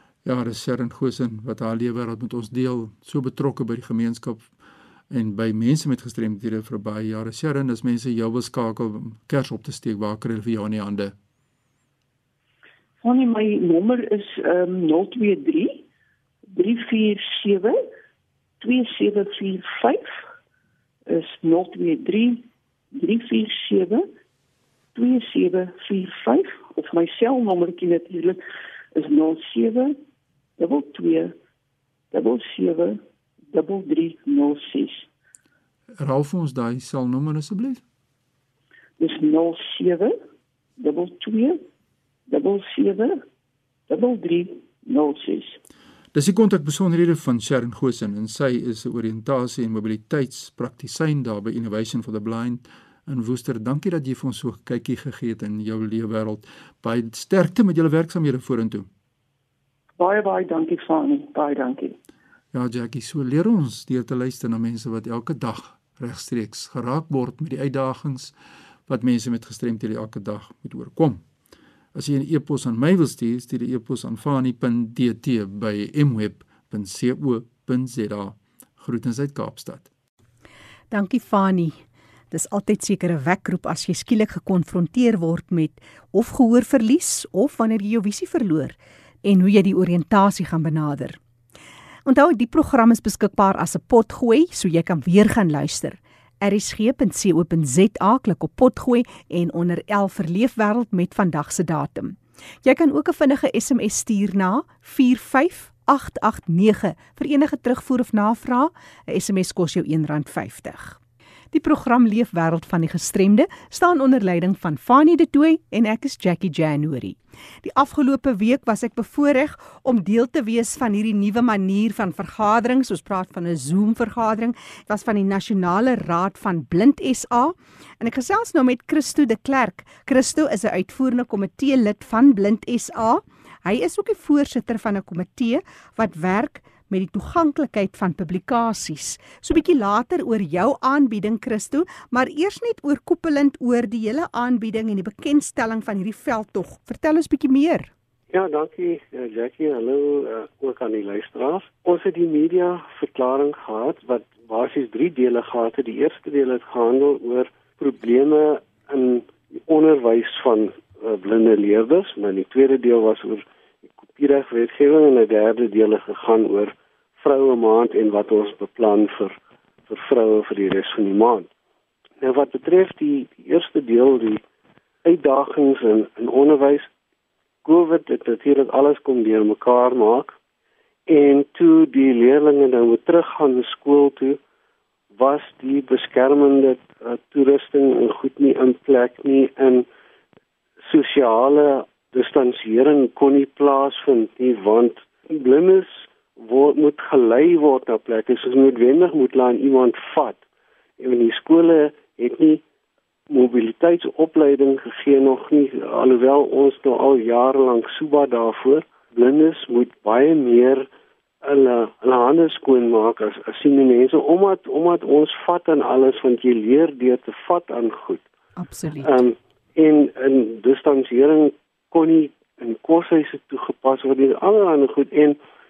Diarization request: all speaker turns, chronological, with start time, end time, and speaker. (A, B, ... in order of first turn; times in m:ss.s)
0:00.2-0:04.5 A
0:05.1-0:11.1 A
0:13.0-0:15.8 B
0:16.5-0:17.8 B
0:18.6-0:20.1 B
0:21.1-0:24.0 B
0:24.9-0:28.4 B
0:28.9-0:30.0 B
0:30.6-0:31.3 B
0:32.1-0:33.0 B
0:33.5-0:35.1 B
0:36.0-0:37.8 A
0:39.0-0:40.1 B
0:40.8-0:41.6 B
0:42.3-0:43.2 B
0:43.9-0:45.6 B
0:46.1-0:58.9 A
1:00.0-1:02.0 B
1:02.5-1:08.3 A
1:08.9-1:11.2 A
1:11.9-1:19.9 A
1:20.9-1:21.8 C
1:22.3-1:31.2 C
1:32.0-1:51.0 C
1:51.5-2:27.9 C
2:28.3-2:43.4 D
2:44.0-2:49.3 D
2:49.9-2:51.5 D
2:52.2-2:54.4 D
2:55.0-2:56.9 D
2:57.6-3:00.3 D
3:01.1-3:04.4 D
3:05.1-3:09.8 D
3:10.8-3:20.4 D
3:21.0-3:22.6 D
3:23.3-3:30.9 D
3:31.4-3:38.2 D
3:38.6-3:39.2 C
3:39.0-3:45.4 D